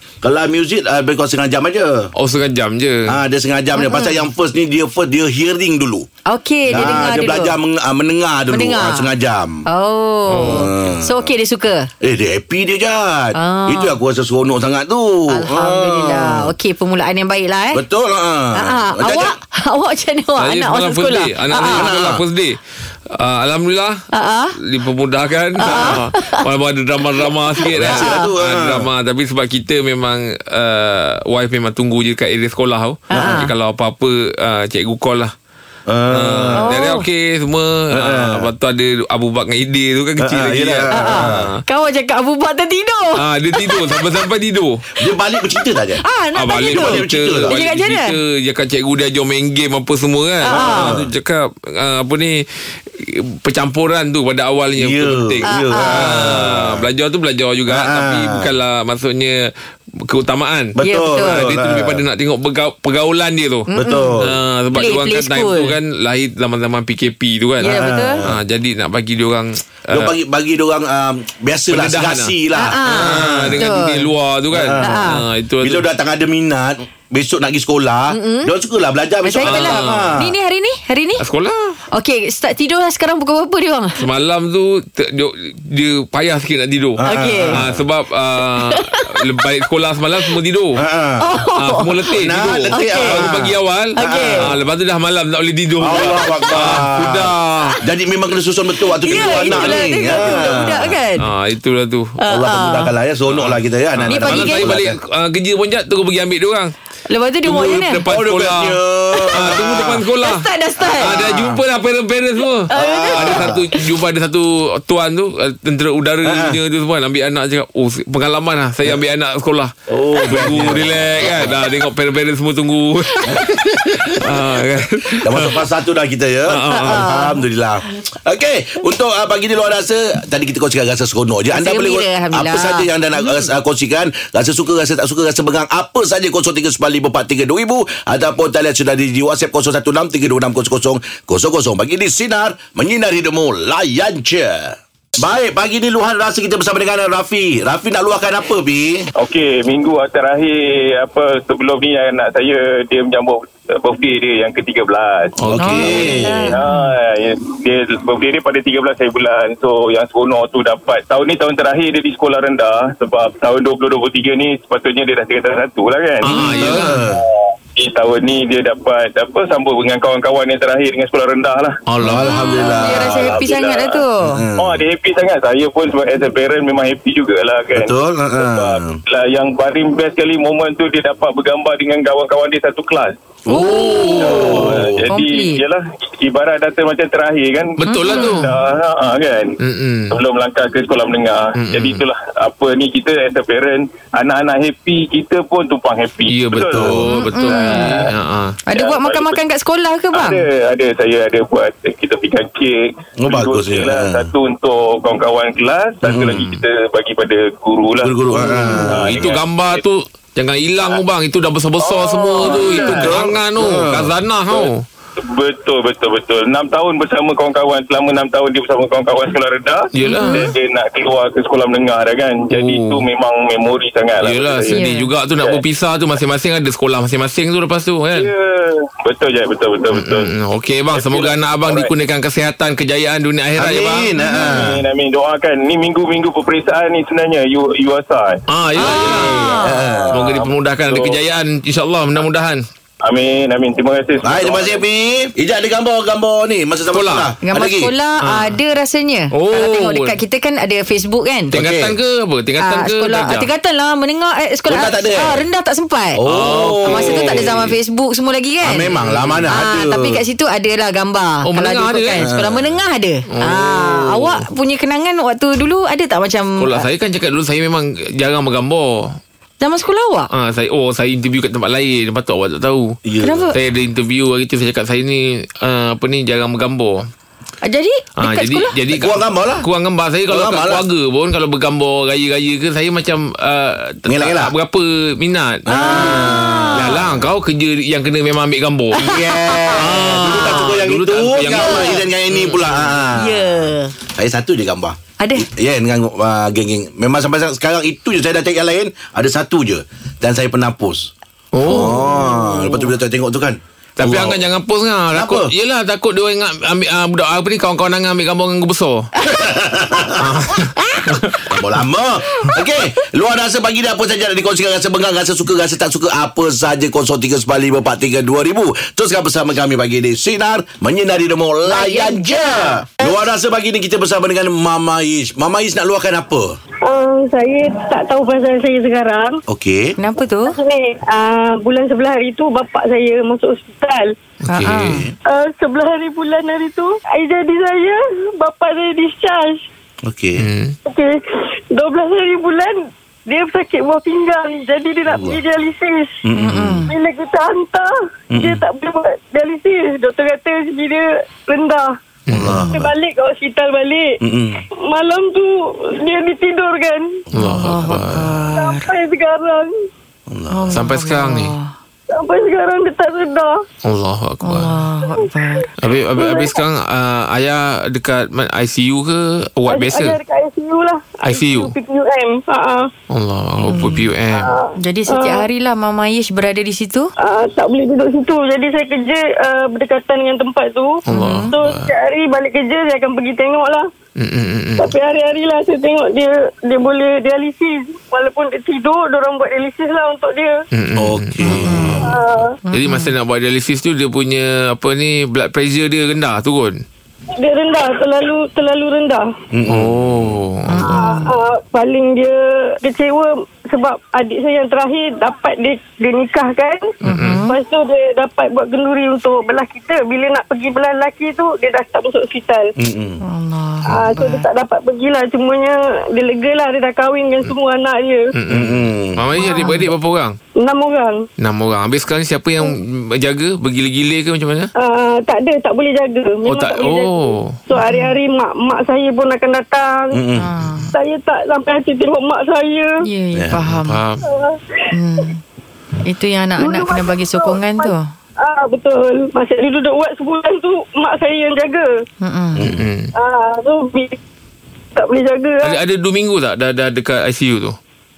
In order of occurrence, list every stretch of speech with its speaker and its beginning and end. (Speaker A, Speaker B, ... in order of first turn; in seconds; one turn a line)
Speaker A: 0.2-2.1
Speaker B: 2.2-3.0
Speaker A: 3.1-6.1
Speaker C: 3.8-4.2
Speaker C: 6.3-7.5
Speaker A: 6.7-9.7
Speaker C: 8.5-9.1
Speaker C: 9.7-11.9
Speaker B: 10.3-10.7
Speaker A: 10.3-11.3
Speaker A: 12.0-16.5
Speaker C: 13.3-14.0
Speaker C: 15.3-17.8
Speaker A: 17.7-19.4
Speaker C: 18.5-21.9
Speaker B: 20.4-22.6
Speaker A: 21.6-22.2
Speaker B: 23.1-24.0
Speaker C: 24.1-24.6
Speaker B: 24.6-35.3
Speaker C: 25.6-26.4
Speaker A: 25.6-26.0
Speaker A: 27.7-28.9
Speaker C: 27.7-28.3
Speaker C: 33.1-33.5
Speaker A: 33.1-33.4
Speaker A: 35.9-36.8
Speaker B: 36.1-41.6
Speaker C: 36.5-37.1
Speaker A: 37.9-38.5
Speaker A: 40.2-41.5
Speaker C: 40.9-44.2
Speaker B: 43.2-44.8
Speaker A: 45.0-46.0
Speaker C: 46.0-48.2
Speaker B: 46.3-59.4
Speaker A: 46.7-47.5
Speaker C: 50.5-51.0
Speaker A: 50.5-51.1
Speaker A: 54.8-56.9
Speaker C: 55.4-56.4
Speaker A: 57.7-58.5
Speaker B: 60.1-63.7
Speaker A: 60.8-62.0
Speaker C: 60.8-61.4
Speaker C: 63.7-64.2
Speaker A: 63.7-64.4
Speaker B: 64.2-67.7
Speaker C: 64.7-65.8
Speaker C: 67.6-68.2
Speaker A: 67.6-68.4
Speaker B: 68.3-70.1
Speaker A: 69.9-73.6
Speaker B: 71.7-75.8
Speaker C: 72.5-74.1
Speaker A: 74.5-80.3
Speaker C: 74.8-75.2
Speaker C: 78.1-78.5
Speaker C: 79.2-81.2
Speaker B: 79.4-80.1
Speaker B: 81.2-81.8
Speaker C: 81.9-84.0
Speaker B: 84.0-90.8
Speaker A: 87.0-87.8
Speaker C: 87.0-87.6
Speaker C: 88.5-89.1
Speaker A: 90.8-91.3
Speaker C: 91.2-92.0
Speaker B: 91.6-97.8
Speaker A: 92.1-94.6
Speaker C: 92.7-93.3
Speaker C: 94.0-94.5
Speaker A: 95.8-97.3
Speaker A: 97.8-101.0
Speaker C: 99.0-101.2
Speaker B: 99.3-99.9
Speaker B: 101.2-102.1
Speaker C: 102.2-102.9
Speaker A: 102.3-105.0
Speaker B: 103.3-106.7
Speaker C: 104.1-104.7
Speaker C: 107.1-108.0
Speaker B: 107.4-110.5
Speaker A: 108.1-110.1
Speaker C: 110.2-111.1
Speaker A: 110.8-111.6
Speaker B: 111.0-119.7
Speaker C: 112.7-113.6
Speaker A: 112.7-113.7
Speaker A: 116.2-116.6
Speaker A: 119.9-121.6
Speaker B: 120.2-123.6
Speaker A: 123.3-124.5
Speaker B: 124.2-125.6
Speaker A: 125.2-149.1
Speaker B: 126.5-127.0
Speaker C: 126.7-127.4
Speaker C: 131.5-132.9
Speaker D: 149.2-171.8
Speaker B: 155.4-156.1
Speaker A: 155.5-156.6
Speaker C: 155.6-156.9
Speaker B: 166.2-167.0
Speaker A: 166.4-167.2
Speaker B: 171.9-172.3
Speaker A: 172.0-173.5
Speaker C: 172.2-174.4
Speaker D: 173.0-174.0
Speaker A: 174.3-174.8
Speaker D: 174.6-183.1
Speaker A: 177.8-179.0
Speaker C: 183.5-185.6
Speaker A: 183.5-185.0
Speaker D: 184.1-189.6
Speaker B: 187.8-188.5
Speaker C: 187.8-188.4
Speaker B: 189.6-190.2
Speaker D: 190.1-198.1
Speaker B: 191.6-192.0
Speaker B: 196.3-198.6
Speaker A: 196.5-197.2
Speaker C: 197.1-198.1
Speaker C: 198.7-200.4
Speaker D: 198.7-199.4
Speaker D: 200.1-208.1
Speaker A: 203.2-204.3
Speaker A: 206.0-206.5
Speaker A: 208.0-209.2
Speaker B: 208.4-214.8
Speaker C: 208.6-208.9
Speaker D: 208.9-209.8
Speaker D: 211.8-213.3
Speaker A: 212.9-214.2
Speaker D: 214.5-225.6
Speaker B: 219.9-220.5
Speaker C: 220.1-220.5
Speaker B: 222.5-223.1
Speaker B: 224.2-228.3
Speaker C: 224.7-225.1
Speaker D: 228.2-230.3
Speaker B: 229.9-234.1
Speaker D: 230.9-231.9
Speaker A: 233.6-234.9
Speaker D: 234.2-241.2
Speaker B: 238.5-239.5
Speaker C: 238.8-239.8
Speaker A: 238.9-240.2
Speaker B: 240.1-242.6
Speaker D: 243.1-244.8
Speaker A: 244.2-247.9
Speaker B: 246.9-247.3
Speaker C: 247.4-251.6
Speaker B: 248.2-248.6
Speaker B: 249.3-250.2
Speaker A: 251.5-252.0
Speaker B: 251.5-253.5
Speaker C: 252.6-256.2
Speaker A: 254.7-255.5
Speaker A: 256.2-257.7
Speaker B: 256.3-257.7
Speaker C: 256.8-258.9
Speaker A: 258.6-260.2
Speaker B: 258.9-259.4
Speaker C: 259.5-266.9
Speaker B: 261.4-262.2
Speaker A: 262.2-262.8
Speaker B: 263.3-264.4
Speaker B: 266.6-269.2
Speaker C: 269.6-270.3
Speaker B: 270.3-273.0
Speaker A: 273.1-273.5
Speaker C: 273.2-273.6
Speaker B: 273.5-277.0
Speaker C: 277.6-278.8
Speaker B: 278.2-289.0
Speaker A: 278.9-279.7
Speaker A: 280.3-280.9
Speaker A: 284.1-284.6
Speaker A: 285.7-287.3
Speaker C: 285.7-287.0
Speaker C: 288.9-289.8
Speaker A: 289.0-301.1
Speaker B: 289.7-292.9
Speaker C: 291.5-292.0
Speaker C: 293.2-293.9
Speaker C: 295.2-295.5
Speaker B: 301.5-302.4
Speaker A: 301.6-304.4
Speaker C: 301.7-302.5
Speaker B: 304.0-309.1
Speaker A: 305.1-305.5
Speaker A: 309.3-310.2
Speaker B: 310.2-311.4
Speaker C: 310.8-311.0
Speaker A: 311.5-326.6
Speaker C: 321.7-322.9
Speaker E: 326.9-329.3
Speaker A: 329.5-329.9
Speaker C: 330.0-330.6
Speaker E: 330.5-334.1
Speaker B: 334.5-334.9
Speaker C: 334.5-335.1
Speaker A: 334.7-335.1
Speaker E: 335.4-339.6
Speaker A: 340.1-340.5
Speaker B: 340.4-340.7
Speaker E: 340.9-341.2
Speaker E: 341.8-346.1
Speaker A: 345.1-345.4
Speaker A: 346.3-346.8
Speaker C: 346.4-346.9
Speaker E: 346.9-347.9
Speaker A: 348.3-348.6
Speaker E: 348.4-351.9
Speaker B: 352.3-352.6
Speaker A: 352.3-352.9
Speaker E: 352.8-354.0
Speaker A: 354.2-354.6
Speaker E: 354.9-355.5
Speaker E: 356.0-357.1
Speaker B: 357.3-358.5
Speaker C: 357.3-358.9
Speaker E: 358.6-359.7
Speaker A: 360.3-360.8
Speaker C: 360.5-361.7
Speaker B: 360.7-361.5
Speaker E: 362.2-363.5
Speaker B: 363.9-364.7
Speaker C: 364.4-365.7
Speaker B: 365.8-370.2
Speaker E: 366.2-366.6
Speaker E: 369.7-372.8
Speaker B: 371.2-371.7
Speaker B: 373.1-374.5
Speaker C: 373.6-374.1
Speaker C: 374.8-377.1
Speaker E: 377.2-380.9
Speaker C: 381.1-381.6
Speaker B: 381.1-381.9
Speaker E: 381.5-383.8
Speaker B: 384.2-384.9
Speaker E: 384.8-390.5
Speaker B: 390.8-396.8
Speaker A: 391.0-392.0
Speaker C: 391.5-392.0
Speaker E: 392.1-392.4
Speaker C: 392.7-393.1
Speaker E: 397.4-399.2
Speaker A: 399.5-400.0
Speaker B: 399.7-400.9
Speaker C: 400.7-401.4
Speaker E: 400.9-406.9
Speaker B: 407.1-407.4
Speaker C: 407.1-407.6
Speaker E: 407.4-412.6
Speaker A: 412.8-413.2
Speaker C: 413.2-414.5
Speaker E: 413.9-418.2
Speaker B: 418.4-420.4
Speaker A: 418.5-419.2
Speaker C: 419.4-419.9
Speaker E: 420.7-421.2
Speaker B: 421.4-424.7
Speaker E: 424.8-430.0
Speaker B: 426.4-427.5
Speaker C: 427.8-428.2
Speaker A: 430.1-430.5
Speaker C: 430.4-430.9
Speaker E: 430.9-432.9
Speaker C: 433.1-434.0
Speaker A: 433.4-433.6
Speaker B: 433.6-434.2
Speaker C: 434.9-435.4
Speaker C: 436.0-438.0
Speaker E: 436.6-437.9
Speaker E: 438.5-441.9
Speaker C: 442.2-442.7
Speaker A: 442.6-442.9
Speaker B: 442.7-443.1
Speaker E: 443.2-444.1
Speaker E: 445.0-445.8
Speaker B: 445.6-447.8